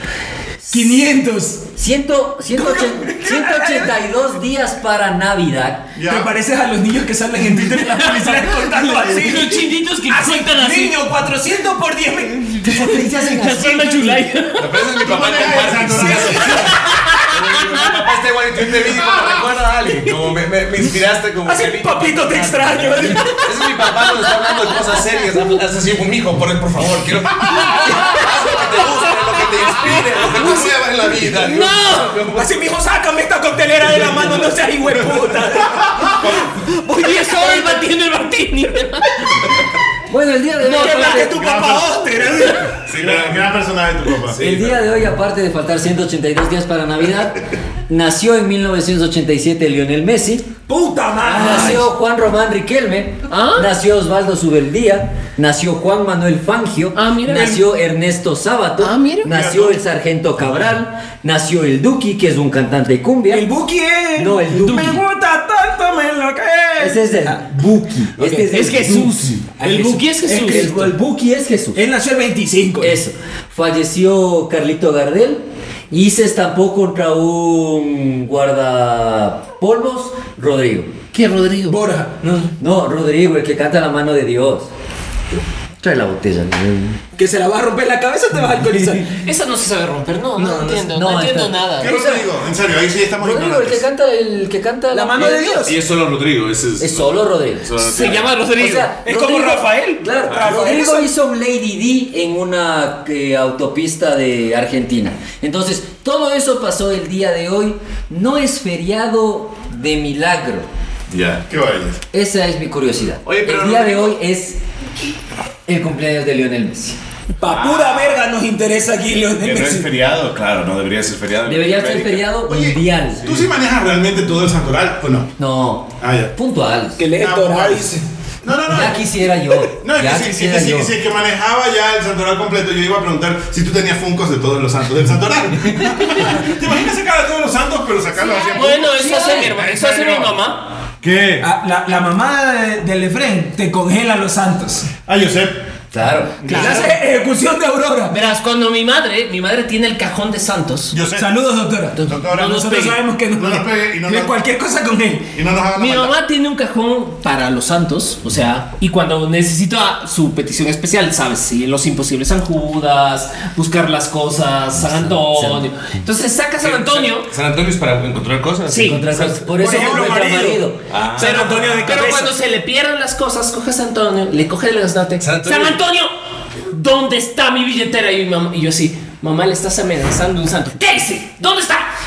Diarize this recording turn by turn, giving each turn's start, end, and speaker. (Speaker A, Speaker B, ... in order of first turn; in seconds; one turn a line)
Speaker A: 0.7-1.7
Speaker B: 1.8-5.9
Speaker A: 2.5-3.9
Speaker C: 6.0-6.3
Speaker A: 6.1-13.2
Speaker D: 7.8-11.0
Speaker B: 12.6-14.2
Speaker D: 12.7-14.9
Speaker E: 14.6-32.5
Speaker C: 15.0-16.8
Speaker A: 15.9-16.8
Speaker D: 16.7-17.9
Speaker A: 21.4-23.5
Speaker D: 31.4-32.2
Speaker A: 32.4-36.1
Speaker D: 36.9-39.5
Speaker B: 40.1-41.5
Speaker A: 40.6-42.8
Speaker D: 40.6-41.3
Speaker C: 41.4-42.0
Speaker D: 42.4-42.8
Speaker E: 42.9-43.6
Speaker C: 42.9-44.5
Speaker E: 44.3-44.8
Speaker B: 44.4-50.5
Speaker A: 50.7-51.9
Speaker B: 51.2-63.5
Speaker D: 53.3-53.7
Speaker D: 57.0-57.6
Speaker D: 58.8-59.3
Speaker C: 59.3-59.8
Speaker A: 63.3-67.5
Speaker B: 64.2-65.0
Speaker D: 64.6-65.0
Speaker B: 66.8-69.3
Speaker A: 68.2-71.0
Speaker D: 68.5-70.7
Speaker B: 70.4-71.8
Speaker A: 71.8-73.0
Speaker B: 72.8-80.9
Speaker D: 81.1-81.8
Speaker A: 81.7-82.5
Speaker B: 82.6-84.7
Speaker B: 85.8-87.0
Speaker A: 87.2-89.1
Speaker B: 88.7-89.0
Speaker D: 89.1-91.9
Speaker A: 90.4-90.9
Speaker B: 90.9-92.3
Speaker C: 91.8-93.8
Speaker B: 93.2-95.7
Speaker A: 94.9-95.8
Speaker E: 95.6-98.3
Speaker B: 96.8-110.7
Speaker D: 97.8-98.9
Speaker A: 99.0-101.1
Speaker E: 100.3-100.6
Speaker E: 111.1-111.5
Speaker C: 111.5-112.0
Speaker B: 112.1-114.6
Speaker E: 113.2-114.2
Speaker B: 115.7-117.0
Speaker A: 117.4-119.9
Speaker E: 117.5-118.2
Speaker E: 119.4-122.4
Speaker B: 121.5-123.3
Speaker C: 122.5-125.3
Speaker B: 125.4-127.0
Speaker C: 126.0-126.3
Speaker A: 127.0-128.0
Speaker C: 127.2-129.0
Speaker B: 128.7-130.9
Speaker C: 129.7-140.4
Speaker D: 138.5-140.7
Speaker B: 138.9-139.5
Speaker C: 141.0-141.5
Speaker A: 141.4-144.9
Speaker C: 145.1-145.7
Speaker B: 145.9-146.8
Speaker C: 146.4-146.9
Speaker A: 146.5-148.1
Speaker D: 146.5-146.9
Speaker D: 148.1-150.9
Speaker C: 150.9-151.3
Speaker A: 151.2-155.3
Speaker D: 152.0-153.0
Speaker C: 152.1-152.6
Speaker C: 153.3-154.3
Speaker C: 155.3-156.2
Speaker D: 155.8-167.3
Speaker B: 164.8-165.7
Speaker E: 166.6-169.2
Speaker D: 168.7-169.1
Speaker B: 168.8-170.8
Speaker A: 169.4-170.7
Speaker E: 170.9-172.0
Speaker A: 171.2-172.3
Speaker D: 171.2-176.1
Speaker E: 175.2-175.8
Speaker D: 176.7-181.9